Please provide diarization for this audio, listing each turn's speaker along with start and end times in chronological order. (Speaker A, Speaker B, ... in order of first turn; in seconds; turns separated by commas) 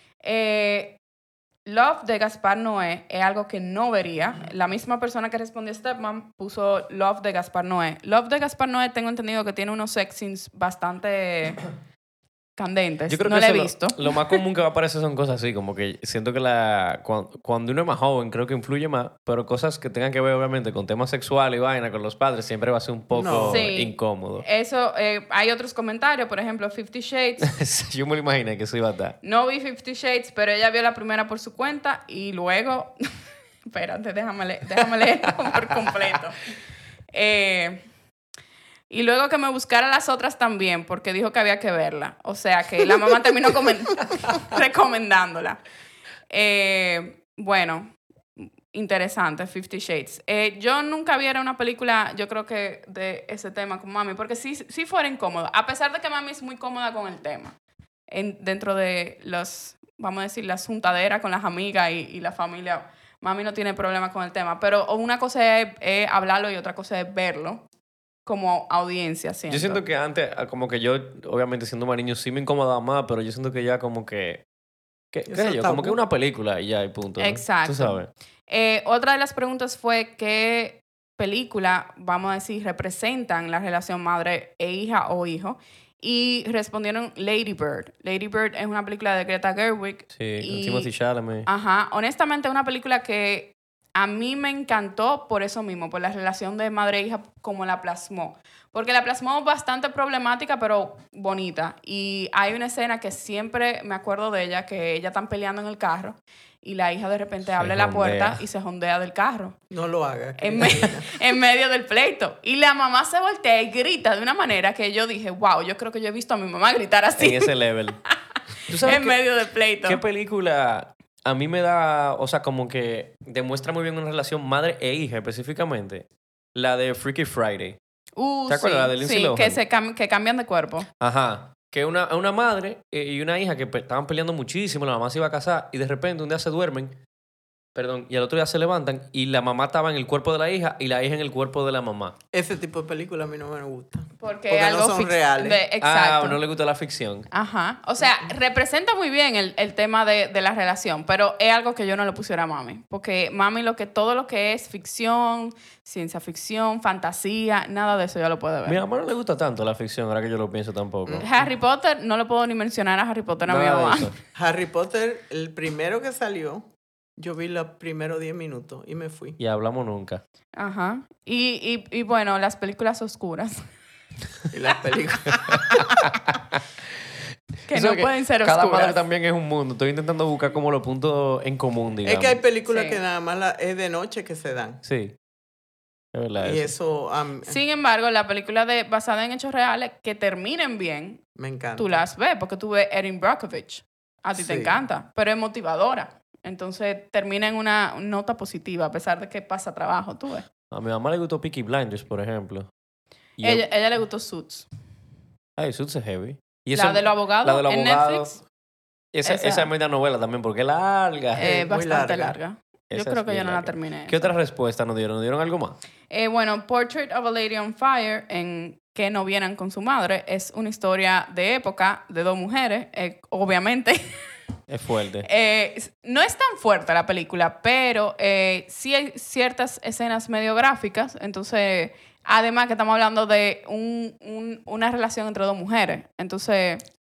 Speaker A: 0.2-1.0, Speaker A: 1.6-11.6, Speaker A: 12.6-14.4, Speaker B: 13.1-24.4, Speaker C: 23.1-23.7, Speaker A: 23.5-27.5, Speaker B: 27.4-29.2, Speaker A: 29.2-33.0, Speaker A: 33.7-36.4, Speaker A: 37.1-37.8, Speaker A: 38.9-45.6, Speaker A: 46.3-57.5, Speaker A: 58.1-67.6, Speaker A: 68.2-69.8, Speaker B: 69.5-74.4, Speaker B: 75.1-78.1, Speaker C: 75.3-76.0, Speaker A: 77.2-90.9, Speaker B: 90.1-91.5, Speaker A: 91.5-109.6, Speaker B: 107.5-108.4, Speaker C: 109.7-111.2, Speaker A: 110.4-117.5, Speaker B: 117.2-118.0, Speaker B: 118.7-119.2, Speaker A: 118.8-120.0, Speaker B: 119.8-127.8, Speaker A: 128.2-130.9, Speaker B: 128.5-129.6, Speaker B: 131.0-137.0, Speaker B: 137.7-142.2, Speaker C: 142.3-145.6, Speaker A: 144.2-146.4, Speaker B: 145.8-147.3, Speaker A: 147.3-158.8, Speaker B: 158.6-161.4, Speaker C: 161.1-161.3, Speaker A: 161.2-164.1, Speaker B: 163.4-164.1, Speaker C: 164.3-169.4, Speaker B: 169.4-170.2, Speaker A: 170.6-173.7, Speaker C: 174.5-175.7, Speaker A: 175.3-176.1, Speaker B: 175.8-176.6, Speaker A: 177.7-179.0, Speaker B: 177.7-182.4, Speaker C: 182.0-184.8, Speaker A: 182.7-183.0, Speaker B: 184.8-185.1, Speaker B: 186.1-186.7, Speaker C: 186.4-187.6, Speaker A: 187.4-191.2, Speaker C: 191.3-192.0, Speaker A: 191.8-200.5, Speaker C: 194.3-194.8, Speaker B: 200.7-202.7, Speaker B: 203.4-203.7, Speaker A: 203.4-204.7, Speaker B: 205.6-208.3, Speaker A: 206.7-208.4, Speaker B: 209.1-211.7, Speaker A: 209.2-209.7, Speaker A: 211.3-214.3, Speaker C: 211.4-212.3, Speaker B: 212.9-215.8, Speaker A: 216.1-224.1, Speaker B: 224.7-225.3, Speaker A: 225.2-236.8